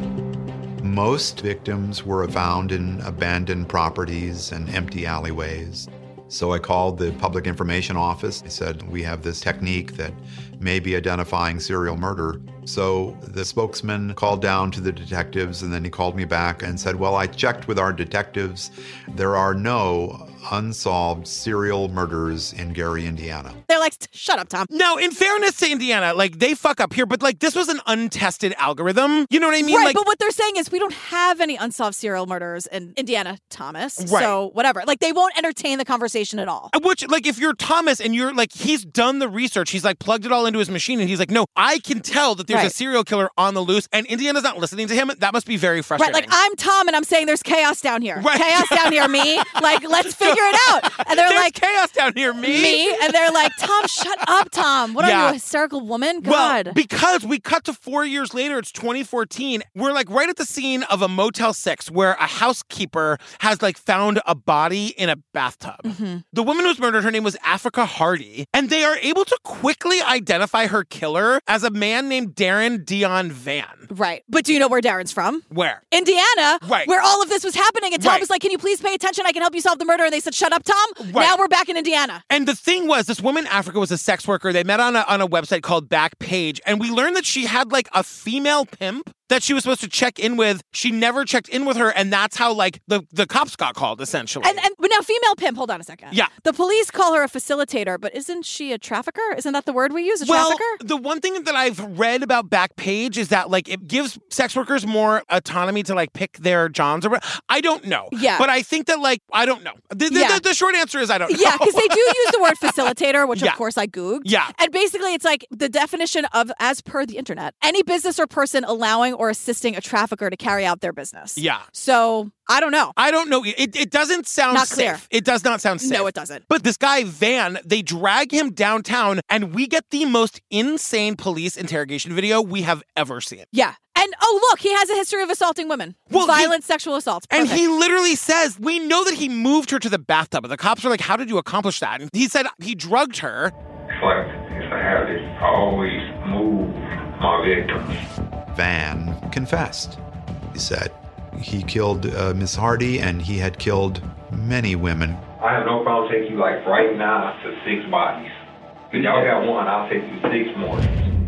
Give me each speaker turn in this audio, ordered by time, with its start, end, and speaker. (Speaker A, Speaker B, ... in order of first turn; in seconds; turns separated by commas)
Speaker A: 0.8-23.6, Speaker B: 23.7-24.7, Speaker C: 24.7-30.0, Speaker B: 29.6-36.7, Speaker C: 34.0-34.4, Speaker C: 36.7-46.3, Speaker B: 46.0-51.5, Speaker C: 48.2-55.4, Speaker B: 52.4-56.8, Speaker C: 56.2-73.9, Speaker B: 65.8-66.2, Speaker B: 73.9-82.2, Speaker C: 75.5-75.8, Speaker C: 76.6-76.9, Speaker C: 78.0-78.2, Speaker C: 81.0-81.4, Speaker C: 82.3-94.6, Speaker B: 94.4-100.8, Speaker C: 100.2-113.6, Speaker B: 108.1-108.5, Speaker B: 110.1-110.4, Speaker B: 111.3-122.9, Speaker C: 114.2-114.5, Speaker C: 121.4-121.6, Speaker C: 123.0-133.5, Speaker B: 124.5-125.0, Speaker B: 125.8-126.4, Speaker B: 133.5-137.6, Speaker C: 136.1-136.5, Speaker C: 137.3-143.5, Speaker D: 143.9-148.0, Speaker A: 148.5-150.0, Speaker A: 150.5-155.2, Speaker D: 155.4-158.3, Speaker D: 158.9-161.0